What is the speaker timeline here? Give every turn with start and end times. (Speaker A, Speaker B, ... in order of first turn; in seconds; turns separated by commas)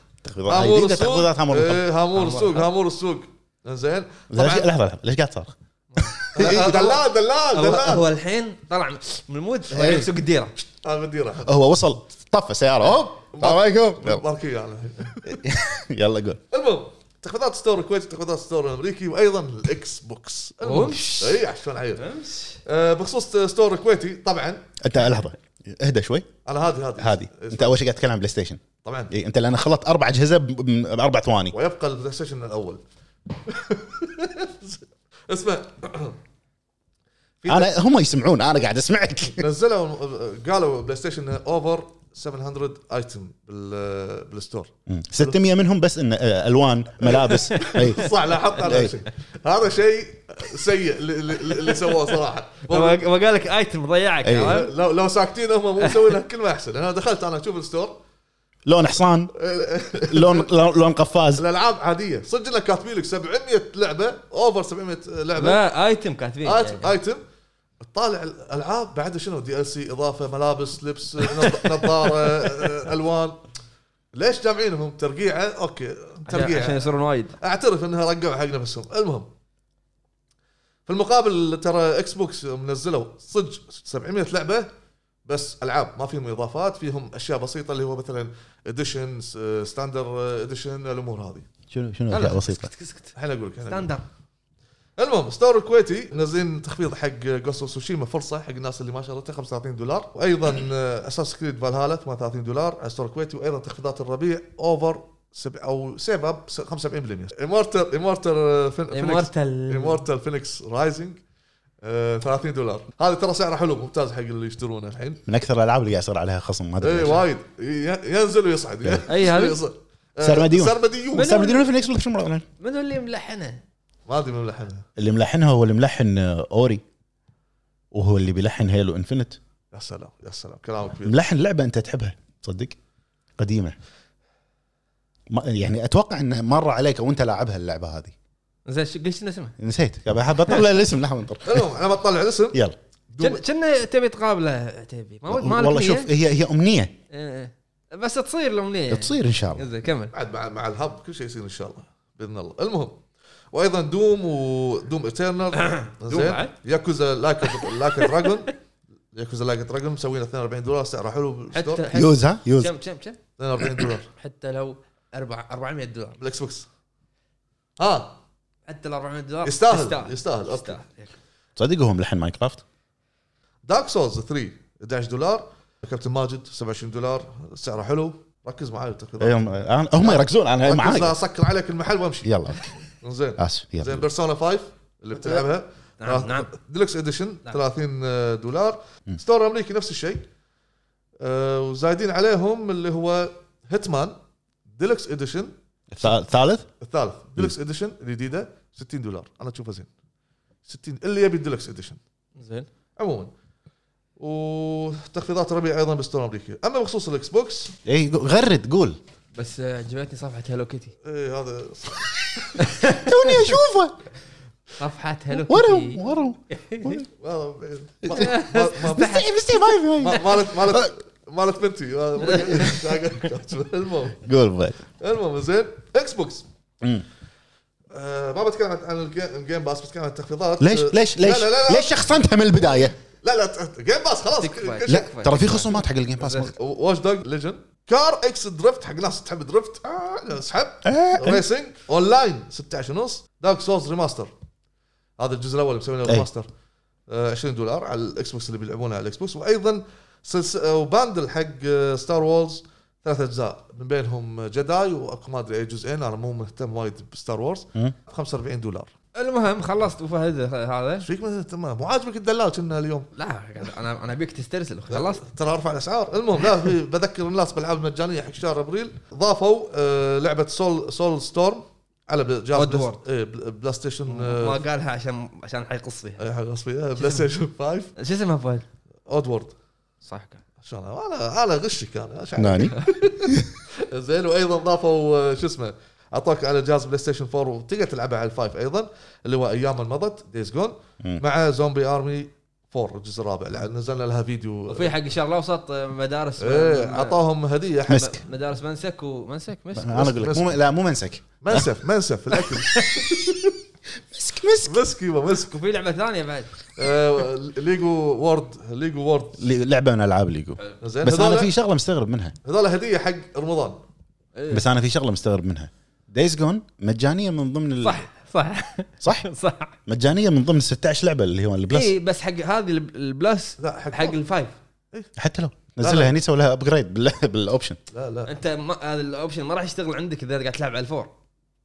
Speaker A: 0.2-1.9, Speaker B: 0.5-4.7, Speaker C: 2.1-2.7, Speaker A: 4.3-6.8, Speaker C: 5.9-7.0, Speaker B: 6.3-8.1, Speaker C: 7.5-10.6, Speaker A: 9.7-10.1, Speaker B: 10.8-11.5, Speaker A: 11.4-14.2, Speaker B: 13.3-15.5, Speaker A: 15.3-16.4, Speaker B: 16.5-22.1, Speaker C: 20.6-21.4, Speaker C: 22.0-22.6, Speaker B: 22.6-24.7, Speaker A: 24.8-26.3, Speaker B: 26.4-27.8, Speaker A: 27.0-31.5, Speaker B: 28.8-29.1, Speaker B: 31.5-36.2, Speaker B: 37.4-37.7, Speaker A: 37.5-39.5, Speaker B: 39.3-45.3, Speaker A: 44.9-48.9, Speaker B: 47.0-53.0, Speaker C: 47.5-47.9, Speaker C: 52.7-54.7, Speaker A: 54.2-54.6, Speaker B: 54.3-58.0, Speaker C: 55.8-56.1, Speaker A: 58.6-59.3, Speaker B: 59.3-60.5, Speaker A: 60.1-61.4, Speaker B: 61.4-65.6, Speaker C: 65.3-66.9, Speaker B: 66.4-67.2, Speaker B: 67.8-73.4, Speaker C: 71.4-72.3, Speaker B: 74.1-79.3, Speaker C: 76.3-77.3, Speaker B: 80.8-84.7, Speaker B: 85.3-91.5, Speaker A: 91.7-92.7, Speaker C: 92.1-93.1, Speaker B: 93.2-93.9, Speaker C: 93.7-94.0, Speaker B: 95.0-111.2, Speaker C: 108.9-110.0, Speaker B: 111.8-115.2, Speaker A: 115.3-117.2, Speaker B: 116.8-121.5, Speaker C: 119.1-119.6, Speaker A: 120.2-122.5, Speaker C: 121.1-121.6, Speaker C: 122.6-123.6, Speaker B: 124.1-124.8, Speaker A: 125.0-126.8, Speaker A: 127.9-129.4, Speaker B: 129.7-131.2, Speaker A: 131.0-132.8, Speaker A: 133.4-133.8, Speaker A: 135.3-138.1, Speaker C: 138.7-139.5, Speaker A: 139.6-141.7, Speaker B: 141.4-142.6, Speaker B: 143.1-143.4, Speaker C: 143.2-146.1, Speaker A: 145.3-146.9, Speaker C: 147.1-150.1, Speaker A: 148.9-149.7, Speaker B: 150.1-153.0, Speaker B: 153.5-158.5, Speaker C: 155.5-156.5, Speaker C: 157.4-158.3, Speaker B: 159.1-161.9, Speaker C: 161.5-163.2, Speaker A: 161.9-162.7, Speaker B: 163.4-164.1, Speaker C: 164.1-166.2, Speaker B: 166.2-166.7, Speaker B: 167.8-168.2, Speaker C: 168.7-171.1, Speaker B: 169.4-170.8, Speaker A: 171.6-172.6, Speaker B: 173.7-182.3, Speaker A: 179.2-181.2, Speaker A: 182.2-182.6, Speaker B: 183.0-190.2, Speaker A: 183.4-184.1, Speaker C: 186.0-186.5, Speaker B: 191.2-194.2, Speaker B: 194.7-196.1, Speaker A: 195.9-196.7, Speaker B: 196.8-199.9, Speaker B: 200.7-202.0, Speaker C: 202.4-202.7, Speaker B: 203.0-203.3, Speaker B: 204.2-207.7, Speaker A: 207.8-209.0, Speaker C: 209.3-210.9, Speaker B: 211.0-212.6, Speaker C: 212.6-213.6, Speaker A: 212.8-213.9, Speaker C: 214.8-217.0, Speaker A: 215.3-217.1, Speaker B: 217.2-219.3, Speaker A: 218.0-220.9, Speaker C: 218.1-220.2, Speaker B: 220.0-224.2, Speaker C: 222.2-222.9, Speaker A: 224.2-224.8, Speaker B: 225.0-226.4, Speaker B: 227.9-232.1, Speaker A: 230.6-232.9, Speaker B: 233.2-235.1, Speaker C: 234.4-236.5, Speaker A: 234.9-236.5, Speaker B: 236.5-244.3, Speaker A: 240.8-241.4, Speaker B: 245.2-246.5, Speaker B: 247.1-258.9, Speaker C: 259.1-261.1, Speaker B: 261.0-263.1, Speaker C: 263.1-265.2, Speaker B: 264.9-274.6, Speaker C: 272.5-273.0, Speaker C: 274.1-276.2, Speaker B: 276.2-277.9, Speaker C: 277.0-277.3, Speaker C: 278.0-278.6, Speaker B: 279.1-279.5, Speaker C: 280.0-280.4, Speaker B: 280.6-294.9, Speaker A: 282.4-283.6, Speaker C: 294.7-297.2, Speaker B: 296.4-298.2, Speaker C: 297.9-300.1, Speaker A: 299.8-301.7, Speaker B: 299.9-300.6, Speaker B: 301.4-303.5, Speaker A: 304.1-304.8, Speaker B: 304.6-305.6, Speaker C: 305.5-306.6, Speaker B: 306.8-309.4, Speaker A: 309.4-312.3, Speaker B: 310.8-311.5, Speaker B: 312.4-313.8, Speaker C: 314.4-314.6, Speaker A: 314.5-318.0, Speaker C: 317.8-319.8, Speaker A: 319.0-319.3, Speaker A: 319.9-321.9, Speaker C: 321.7-324.5, Speaker B: 323.6-324.2, Speaker A: 325.2-327.8, Speaker B: 325.8-326.1, Speaker B: 327.9-328.3, Speaker C: 328.2-331.1